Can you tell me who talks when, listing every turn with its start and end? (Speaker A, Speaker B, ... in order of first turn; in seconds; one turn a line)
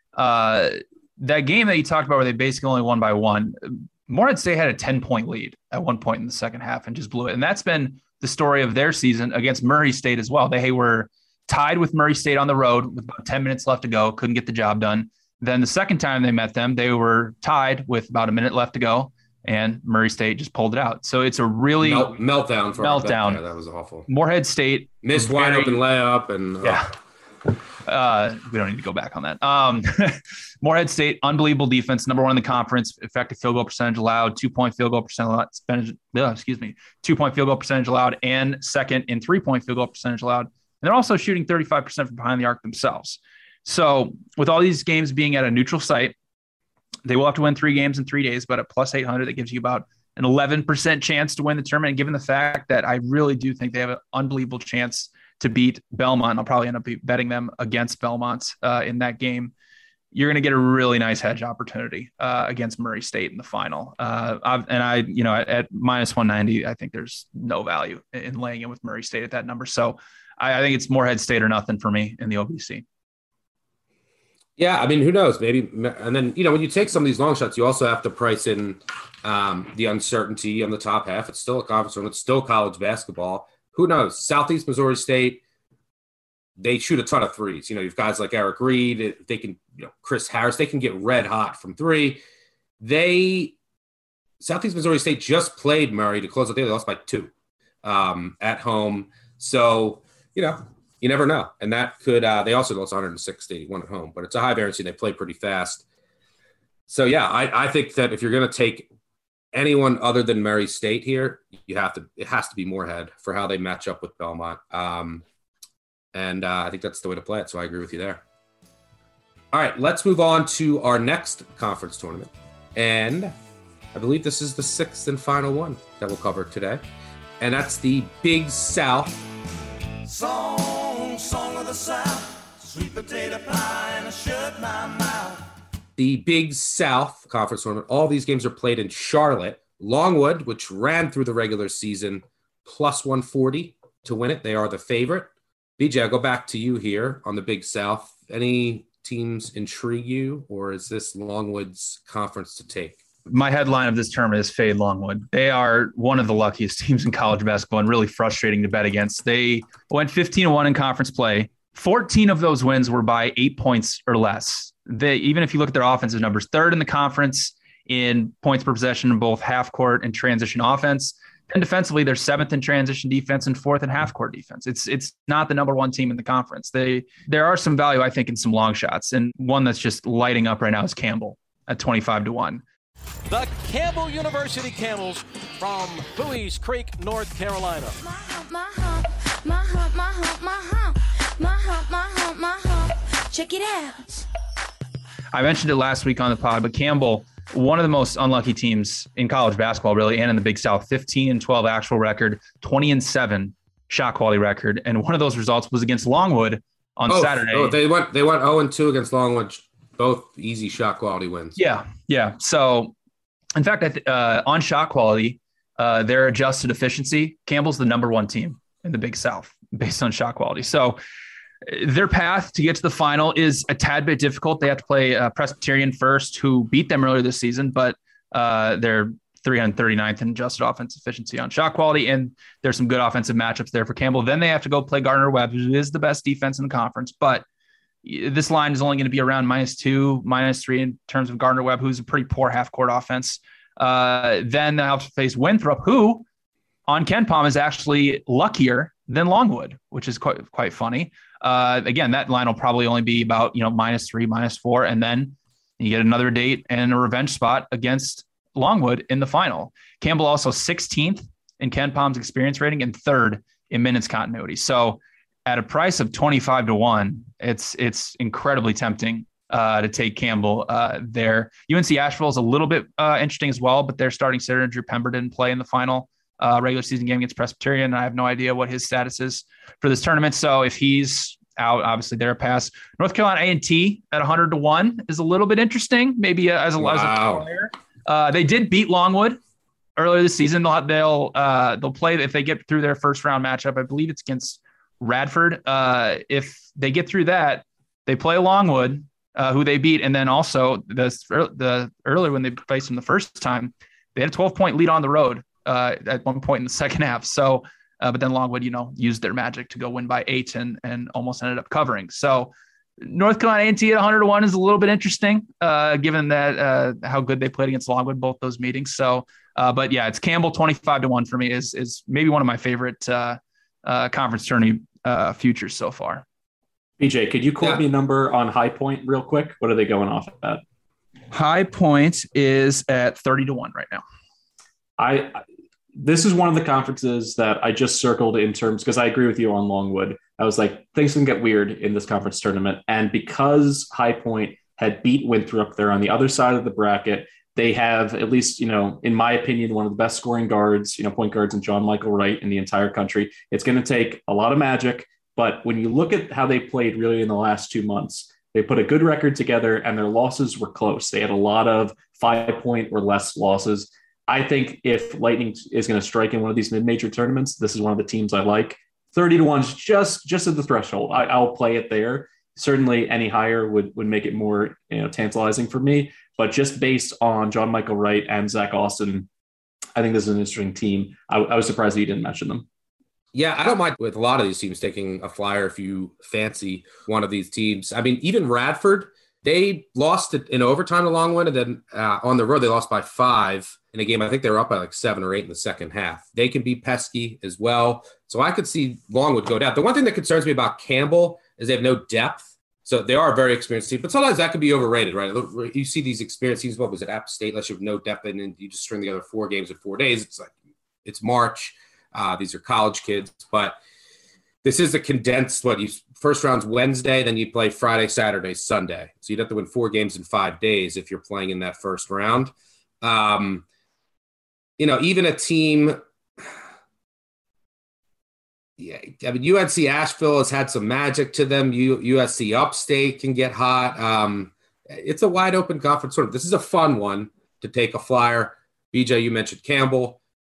Speaker A: 0.1-22.2
Speaker B: 21.8-24.1
Speaker A: 22.8-23.4
Speaker A: 24.1-25.8
Speaker B: 25.0-26.9
Speaker A: 26.6-26.9
Speaker A: 27.8-46.1
Speaker A: 47.0-59.5
Speaker A: 60.1-72.8
Speaker B: 74.6-85.4
Speaker B: 86.6-92.2
Speaker B: 92.8-93.5
Speaker B: 94.4-97.3
Speaker B: 97.8-105.8
Speaker B: 106.9-108.9
Speaker B: 109.5-115.2
Speaker B: 116.1-118.2
Speaker B: 119.5-123.3
Speaker B: 123.9-126.8
Speaker B: 127.4-129.2
Speaker C: 130.0-135.4
Speaker B: 136.0-153.0
Speaker A: 153.2-182.6
Speaker D: 183.3-188.0
Speaker E: 188.0-194.1
Speaker A: 195.3-207.8
Speaker B: 207.1-211.6
Speaker A: 211.6-212.9
Speaker A: 213.5-221.0
Speaker A: 221.6-237.4
Speaker A: 238.0-246.2
Speaker A: 246.9-289.4
Speaker B: 286.8-287.5
Speaker A: 290.0-326.2
Speaker F: 327.0-330.6
Speaker A: 331.3-334.0
Speaker F: 335.0-335.4
Speaker F: 335.9-379.3
Speaker F: 379.9-382.6
Speaker B: 383.3-410.5
Speaker B: 411.0-413.8
Speaker B: 414.6-423.6
Speaker B: 424.8-426.0
Speaker B: 428.8-440.2